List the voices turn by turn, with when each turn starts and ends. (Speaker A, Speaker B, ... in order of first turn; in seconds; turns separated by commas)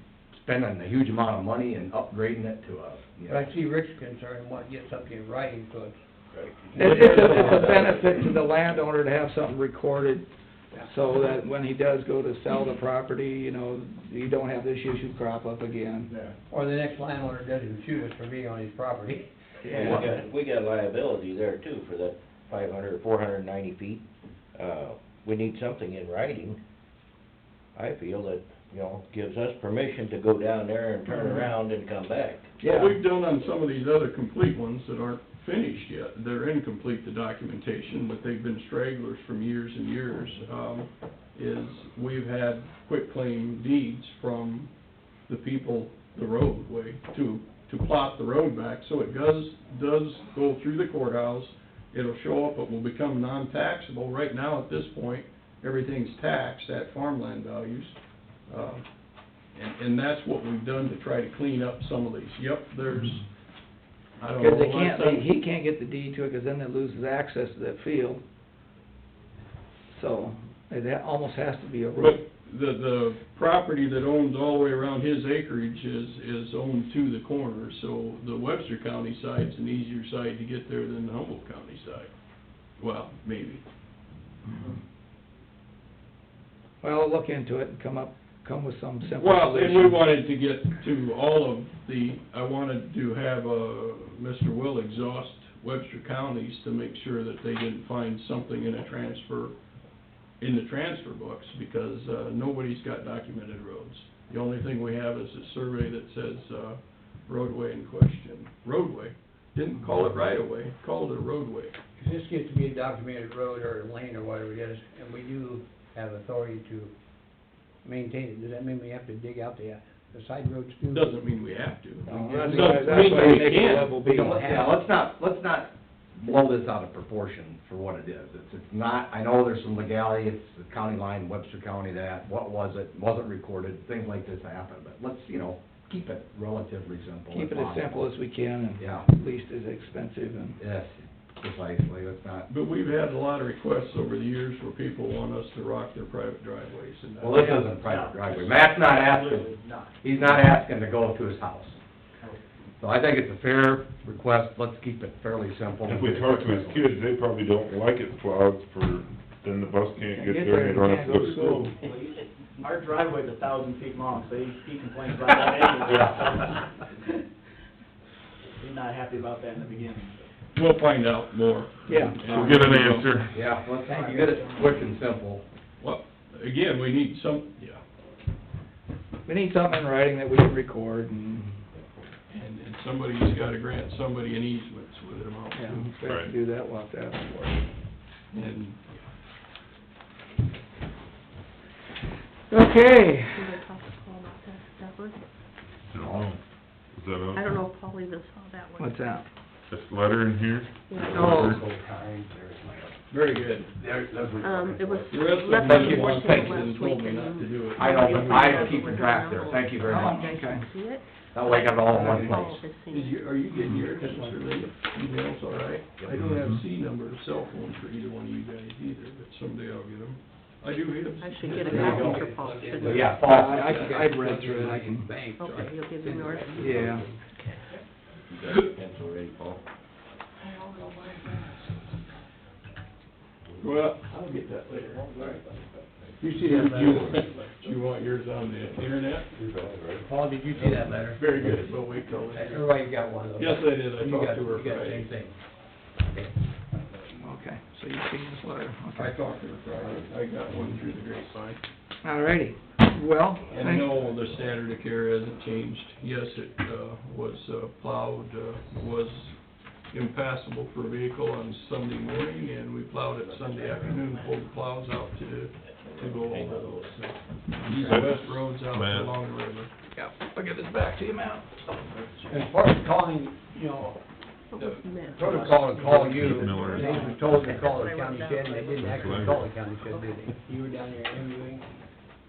Speaker A: 0.3-3.5, Speaker B: 3.3-6.0, Speaker C: 6.3-8.3, Speaker D: 6.7-16.1, Speaker B: 7.1-7.7, Speaker B: 16.5-19.2, Speaker D: 19.7-20.0, Speaker C: 19.7-26.6, Speaker C: 27.7-32.5, Speaker D: 32.6-33.0, Speaker E: 32.6-44.7, Speaker E: 45.2-58.9, Speaker E: 59.5-63.2, Speaker E: 64.2-65.2, Speaker D: 64.4-68.2, Speaker D: 69.9-72.2, Speaker E: 72.0-82.1, Speaker E: 82.8-83.6, Speaker D: 86.8-90.0, Speaker E: 89.2-99.5, Speaker E: 100.4-111.8, Speaker B: 112.0-116.9, Speaker B: 117.8-121.2, Speaker E: 120.9-124.0, Speaker B: 122.1-123.4, Speaker D: 122.1-124.5, Speaker A: 124.0-138.1, Speaker B: 124.0-124.8, Speaker D: 137.3-140.6, Speaker A: 138.8-139.1, Speaker A: 140.6-142.5, Speaker E: 142.5-147.6, Speaker A: 147.2-149.5, Speaker F: 147.6-149.9, Speaker A: 150.0-151.8, Speaker A: 152.8-156.9, Speaker G: 155.8-161.7, Speaker D: 160.1-161.7, Speaker F: 161.8-166.7, Speaker A: 165.8-166.3, Speaker F: 168.6-170.2, Speaker E: 170.5-173.2, Speaker D: 171.9-172.5, Speaker G: 172.3-173.3, Speaker A: 173.3-175.4, Speaker B: 173.8-174.8, Speaker E: 175.8-177.8, Speaker D: 179.3-181.6, Speaker E: 182.3-185.9, Speaker D: 185.5-187.6, Speaker G: 186.0-186.3, Speaker E: 188.3-189.1, Speaker D: 192.5-193.6, Speaker H: 193.3-195.2, Speaker G: 195.9-196.4, Speaker A: 196.0-196.2, Speaker G: 196.9-197.6, Speaker H: 197.3-199.1, Speaker D: 198.8-199.2, Speaker G: 199.7-201.6, Speaker H: 200.9-201.4, Speaker A: 201.1-202.9, Speaker D: 201.1-201.4, Speaker E: 203.1-203.7, Speaker A: 203.8-206.7, Speaker H: 204.4-214.5, Speaker E: 205.1-208.8, Speaker A: 207.7-210.3, Speaker D: 209.8-210.7, Speaker A: 211.3-212.7, Speaker D: 211.9-212.3, Speaker E: 212.9-222.3, Speaker G: 216.1-216.6, Speaker H: 221.2-223.2, Speaker B: 221.4-227.2, Speaker A: 221.7-223.7, Speaker D: 223.2-225.2, Speaker H: 225.2-226.8, Speaker D: 226.6-227.1, Speaker C: 228.3-229.6, Speaker B: 231.0-231.3, Speaker C: 233.4-233.8, Speaker E: 233.6-235.1, Speaker C: 235.1-235.4, Speaker B: 236.2-237.2, Speaker E: 236.4-239.3, Speaker B: 239.4-241.7, Speaker C: 239.5-239.9, Speaker E: 240.6-242.8, Speaker B: 242.3-245.3, Speaker E: 243.3-245.2, Speaker D: 247.2-249.2, Speaker E: 248.9-251.6, Speaker D: 252.0-254.0, Speaker E: 253.5-269.7, Speaker F: 263.3-264.3, Speaker C: 265.9-267.0, Speaker G: 267.6-269.2, Speaker D: 269.9-271.5, Speaker B: 272.3-274.0, Speaker H: 274.5-275.8, Speaker B: 274.6-281.6, Speaker F: 275.8-276.9, Speaker G: 276.2-277.1, Speaker H: 276.7-280.1, Speaker G: 278.7-279.5